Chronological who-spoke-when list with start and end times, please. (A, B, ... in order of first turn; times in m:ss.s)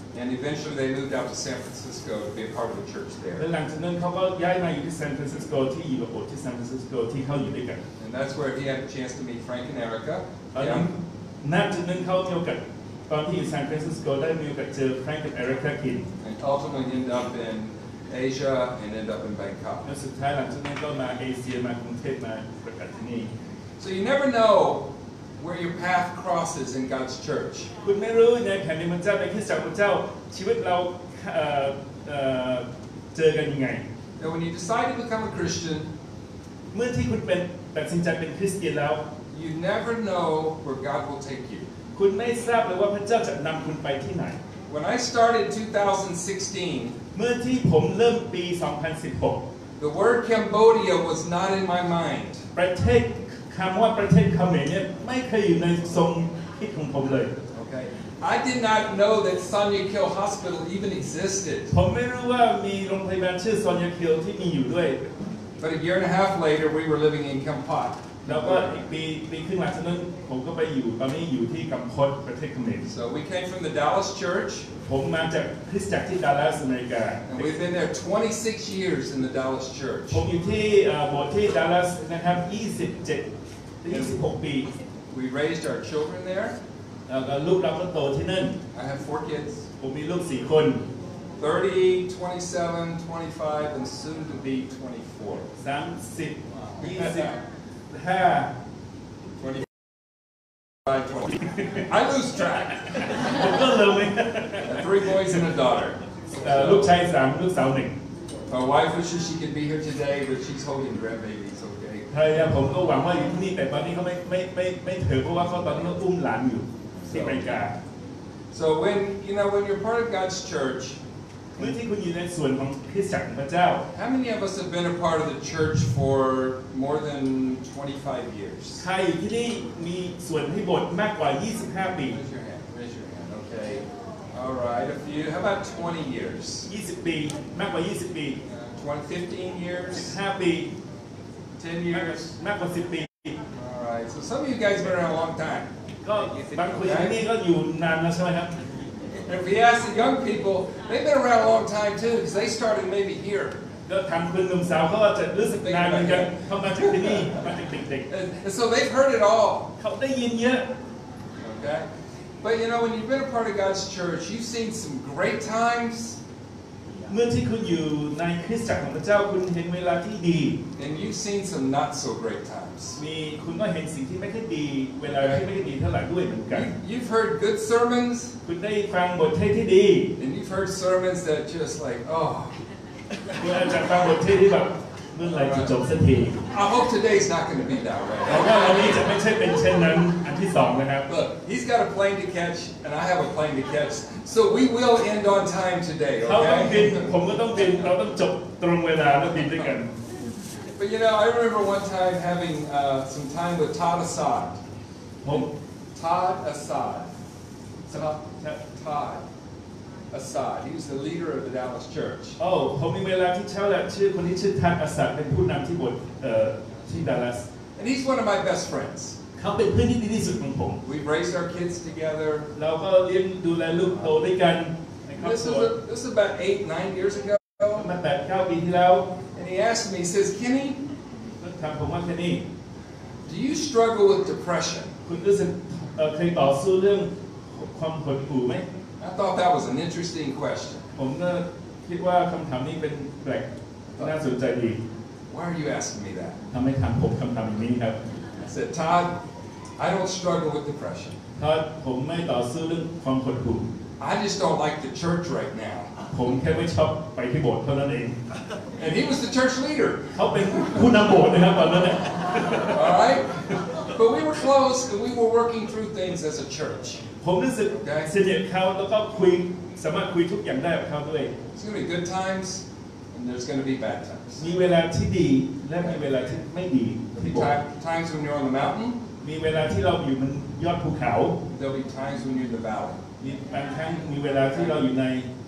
0:00.1-0:03.4 A
0:03.4-0:07.8 B
0:08.0-0:10.9 A
0:10.5-0:16.1 B
0:16.2-0:19.9 A
0:19.8-0:23.3 B
0:23.8-0:27.7 A
0:27.8-0:33.8 B
0:34.2-0:35.9 A
0:36.7-0:39.0 B
0:39.3-0:41.7 A
0:42.0-0:44.4 B
0:44.7-0:47.0 A
0:47.1-0:49.4 B
0:49.8-0:52.4 A
0:52.6-0:57.3 B
0:57.5-1:01.7 A
1:01.7-1:05.2 B
1:05.6-1:08.8 A
1:08.3-1:12.9 B
1:12.8-1:14.7 A
1:14.8-1:17.5 B
1:17.3-1:20.2 A
1:20.1-1:23.3 B
1:23.8-1:24.7 B
1:25.1-1:26.6 A
1:27.1-1:28.6 B
1:28.7-1:29.7 A
1:29.8-1:30.8 B
1:31.4-1:35.5 A
1:35.6-1:37.4 B
1:36.8-1:37.3 A
1:37.9-1:38.5 B
1:39.4-1:39.7 A
1:40.8-1:43.1 A
1:43.1-1:44.8 B
1:44.6-1:46.9 A
1:46.4-1:48.0 B
1:48.5-1:52.1 A
1:52.1-1:57.8 B
1:57.1-1:57.5 A
1:58.5-2:01.0 A
2:01.6-2:03.9 B
2:03.9-2:08.8 A
2:08.8-2:12.2 B
2:12.0-2:16.7 A
2:16.6-2:18.4 B
2:18.6-2:20.2 A
2:20.0-2:20.7 B
2:21.6-2:22.3 A
2:21.9-2:23.4 B
2:23.5-2:25.7 A
2:26.0-2:28.7 B
2:26.4-2:27.2 A
2:29.3-2:33.6 A
2:33.9-2:38.1 B
2:35.6-2:37.3 A
2:38.1-2:39.7 A
2:39.8-2:40.7 B
2:41.4-2:41.8 A
2:42.4-2:46.2 A
2:47.1-2:50.6 B
2:50.8-2:53.0 A
2:53.0-2:56.7 B
2:55.1-2:55.5 A
2:56.5-2:58.4 A
2:58.4-3:00.1 B
3:00.2-3:02.5 A
3:03.4-3:06.4 B
3:05.3-3:05.7 A
3:06.5-3:09.0 A
3:08.3-3:11.3 B
3:11.1-3:17.1 A
3:16.2-3:19.9 B
3:20.8-3:24.6 A
3:25.3-3:27.1 A
3:27.9-3:29.2 A
3:30.1-3:32.4 A
3:32.4-3:37.5 B
3:37.8-3:39.2 A
3:39.4-3:40.8 B
3:40.8-3:42.5 A
3:42.5-3:45.7 B
3:45.2-3:47.8 A
3:47.8-3:49.1 B
3:49.3-3:50.8 A
3:51.4-3:52.4 B
3:53.3-3:54.9 A
3:55.0-3:58.7 B
3:59.0-4:00.8 A
4:01.0-4:04.8 B
4:05.3-4:06.4 A
4:06.5-4:08.0 B
4:08.4-4:09.2 A
4:09.8-4:11.2 A
4:11.4-4:13.7 B
4:14.0-4:15.9 A
4:16.1-4:18.2 B
4:18.8-4:20.8 A
4:20.1-4:22.9 B
4:22.7-4:27.0 A
4:27.2-4:31.4 B
4:27.7-4:28.1 A
4:31.5-4:34.4 A
4:34.4-4:37.5 B
4:37.1-4:39.0 A
4:39.2-4:41.4 B
4:41.5-4:43.0 A
4:43.2-4:45.3 B